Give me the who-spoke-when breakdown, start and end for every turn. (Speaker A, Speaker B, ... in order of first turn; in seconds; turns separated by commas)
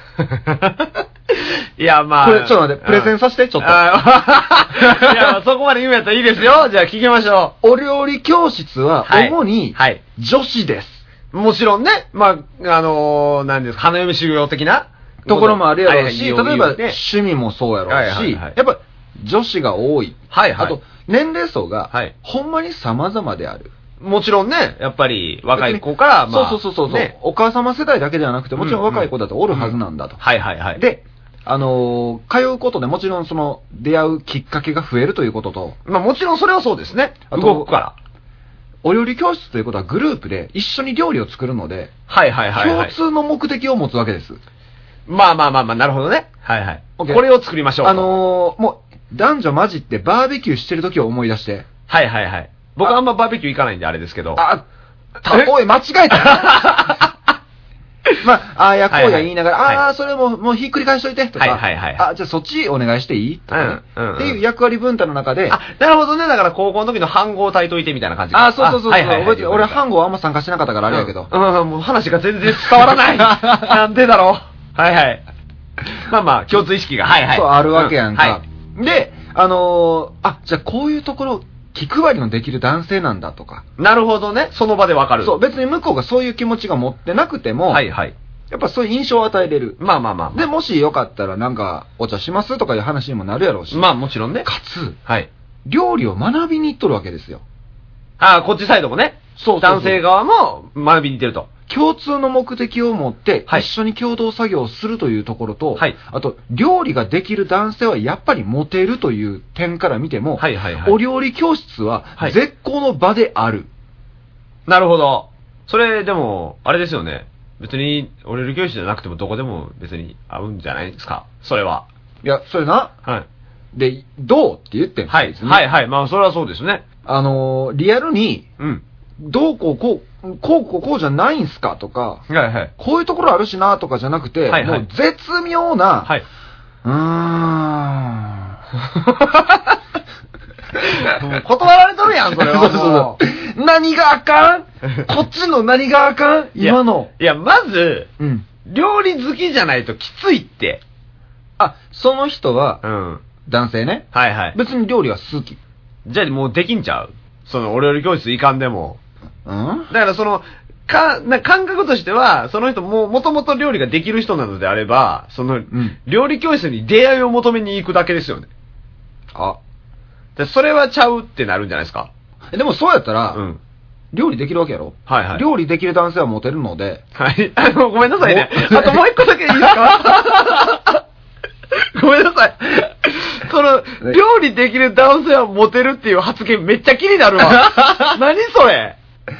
Speaker A: 0.2-7.5, Speaker B: 2.2-3.8, Speaker B: 4.7-5.3, Speaker B: 7.6-11.0, Speaker A: 9.1-10.0, Speaker A: 11.3-17.0, Speaker B: 15.2-23.7, Speaker A: 17.9-18.5, Speaker A: 20.3-20.8, Speaker A: 24.0-27.1, Speaker B: 25.5-30.2, Speaker A: 28.6-30.8, Speaker B: 30.7-35.8, Speaker A: 35.9-37.9, Speaker B: 37.3-37.7, Speaker B: 38.8-41.9, Speaker A: 42.1-42.9, Speaker B: 42.5-44.4, Speaker A: 45.1-48.2, Speaker B: 47.0-47.2, Speaker B: 47.8-51.7, Speaker A: 51.9-54.4, Speaker B: 54.4-54.6, Speaker B: 55.2-57.0, Speaker A: 55.2-55.5, Speaker A: 56.1-57.1, Speaker B: 58.2-65.6, Speaker A: 58.9-59.8, Speaker A: 61.4-62.0, Speaker A: 63.5-64.4, Speaker A: 65.5-69.8, Speaker B: 68.3-71.3, Speaker A: 70.9-75.2, Speaker B: 72.6-73.7, Speaker A: 75.8-78.4, Speaker B: 77.3-83.6, Speaker A: 83.8-85.4, Speaker B: 85.2-87.8, Speaker A: 87.7-88.1, Speaker B: 88.5-89.8, Speaker A: 89.8-90.4, Speaker B: 90.3-93.9, Speaker A: 93.7-94.5, Speaker B: 94.4-95.0, Speaker B: 95.7-97.4, Speaker A: 98.2-101.5, Speaker B: 99.4-100.0, Speaker B: 101.7-113.7, Speaker A: 110.4-111.0, Speaker A: 114.7-121.8, Speaker B: 122.2-122.9, Speaker B: 123.7-125.6, Speaker A: 125.1-126.8, Speaker B: 127.0-128.5, Speaker B: 129.2-132.2, Speaker A: 132.3-132.7, Speaker B: 132.8-136.1, Speaker A: 134.5-134.8, Speaker B: 136.8-138.5, Speaker A: 139.0-139.6, Speaker A: 140.9-143.2, Speaker B: 142.3-147.1, Speaker A: 146.6-148.1, Speaker B: 148.2-148.4, Speaker A: 148.6-150.8, Speaker B: 151.6-152.8, Speaker A: 152.8-153.2, Speaker B: 153.4-155.6, Speaker A: 154.1-154.6, Speaker A: 156.1-159.0, Speaker B: 159.4-159.9, Speaker A: 159.9-168.5, Speaker B: 165.7-166.0, Speaker A: 170.3-172.1, Speaker B: 172.5-173.4, Speaker A: 173.3-173.6, Speaker B: 174.1-177.0, Speaker A: 175.1-175.4, Speaker A: 177.1-181.0, Speaker B: 178.2-180.1, Speaker A: 181.7-189.0, Speaker B: 187.4-188.2